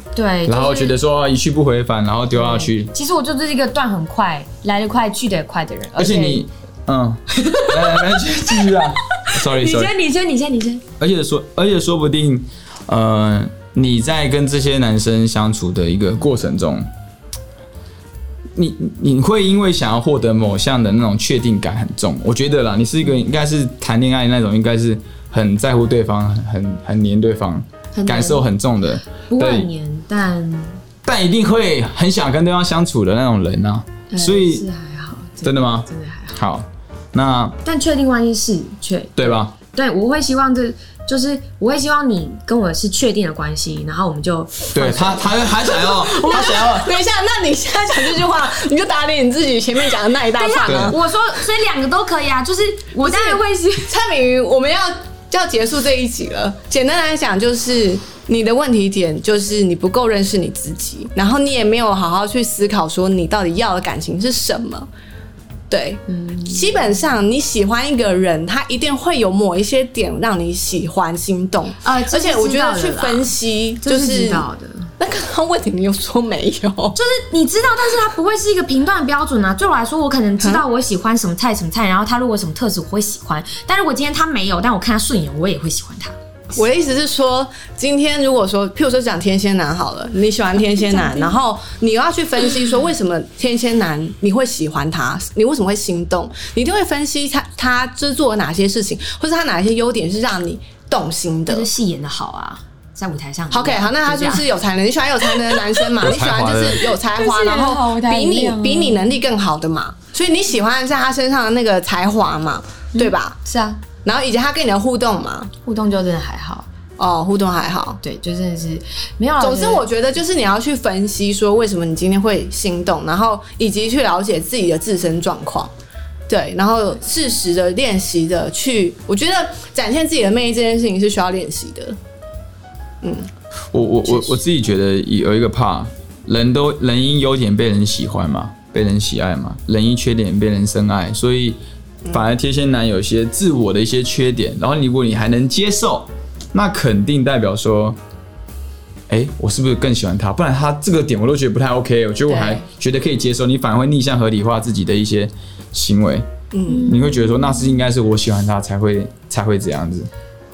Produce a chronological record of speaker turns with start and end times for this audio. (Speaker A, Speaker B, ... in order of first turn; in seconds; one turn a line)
Speaker A: 0.1-1.0
Speaker B: 0.5-2.9
Speaker A: 2.3-6.5
Speaker B: 6.0-9.9
Speaker A: 7.3-10.8
Speaker B: 11.0-16.9
Speaker B: 18.6-29.7
Speaker A: 27.9-28.5
Speaker A: 29.2-30.8
Speaker B: 31.1-34.6
Speaker A: 34.1-36.4
Speaker B: 35.4-37.6
Speaker A: 37.6-45.4
Speaker B: 39.2-39.5
Speaker B: 44.7-47.0
Speaker C: 45.6-51.0
Speaker A: 50.4-53.9
Speaker B: 50.6-51.0
Speaker C: 53.0-64.9
Speaker C: 65.7-74.5
Speaker A: 66.1-66.8
Speaker A: 71.8-73.3
Speaker A: 73.8-74.9
Speaker C: 75.0-77.0
Speaker A: 77.0-86.2
Speaker C: 86.5-101.7
Speaker A: 101.5-104.5
Speaker C: 103.5-113.4
Speaker A: 105.5-105.8
Speaker B: 106.0-106.8
Speaker A: 107.0-109.1
Speaker A: 113.0-113.8
Speaker C: 114.0-115.5
Speaker A: 115.7-116.7
Speaker C: 117.0-118.0
Speaker A: 118.0-119.8
Speaker C: 119.4-125.7
Speaker C: 126.3-132.0
Speaker C: 133.0-133.3
Speaker B: 133.7-141.6
Speaker B: 142.1-148.0
Speaker B: 149.1-156.2
Speaker C: 152.3-152.6
Speaker C: 156.5-157.0
Speaker A: 156.7-157.9
Speaker B: 156.8-160.1